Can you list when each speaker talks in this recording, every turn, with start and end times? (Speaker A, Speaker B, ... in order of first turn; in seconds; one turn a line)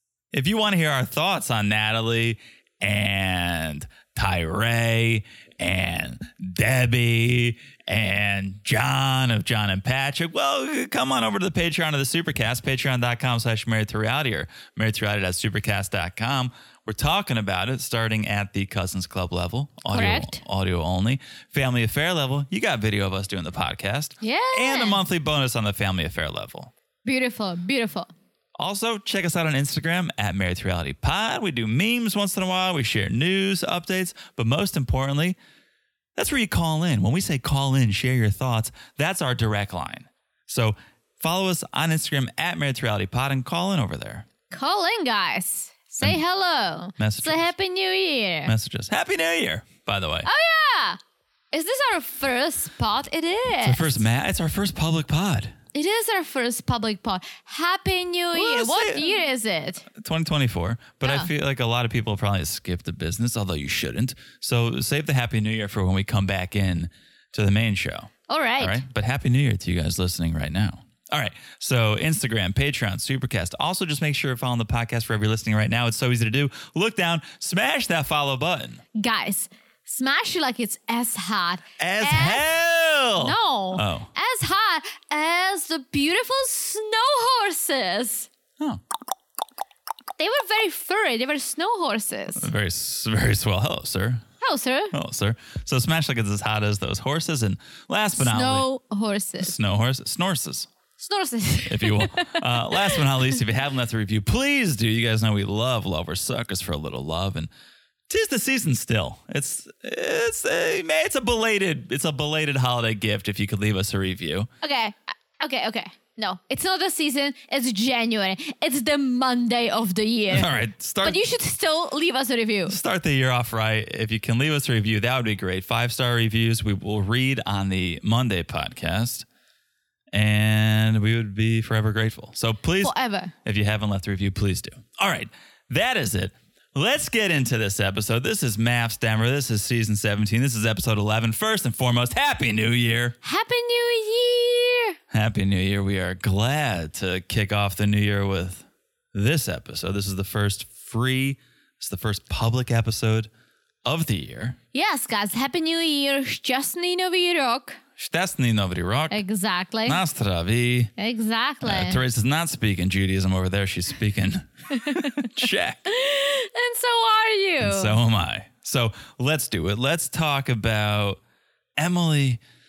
Speaker A: 0.3-26.7
Speaker B: 19.9-20.4
Speaker B: 24.2-25.0
Speaker B: 27.0-28.1
Speaker A: 28.6-35.4
Speaker A: 36.1-44.2
Speaker B: 44.5-48.5
Speaker A: 47.0-47.5
Speaker A: 48.5-50.3
Speaker B: 50.2-51.0
Speaker B: 51.5-54.0
Speaker A: 53.6-55.6
Speaker B: 55.7-59.9
Speaker A: 58.3-59.1
Speaker A: 59.9-78.8
Speaker B: 61.0-61.3
Speaker B: 68.3-68.8
Speaker B: 79.0-82.4
Speaker A: 81.8-84.1
Speaker B: 83.2-88.3
Speaker B: 90.2-92.5
Speaker A: 92.3-94.2
Speaker B: 94.4-94.9
Speaker A: 94.9-98.7
Speaker B: 98.1-99.5
Speaker A: 99.4-100.7
Speaker B: 101.0-103.3
Speaker A: 101.7-107.5
Speaker A: 108.1-114.5
Speaker B: 114.6-122.8
Speaker A: 120.3-121.2
Speaker A: 122.7-129.2
Speaker A: 130.1-143.2
Speaker B: 132.8-133.3
Speaker B: 143.2-144.9
Speaker A: 145.1-153.3
Speaker A: 153.8-154.6
Speaker B: 154.7-157.8
Speaker A: 158.0-159.2
Speaker B: 159.1-160.0
Speaker A: 159.8-160.9
Speaker B: 161.0-162.0
Speaker A: 161.6-165.8
Speaker B: 164.7-165.1
Speaker B: 165.8-168.0
Speaker A: 167.6-171.2
Speaker A: 171.8-172.4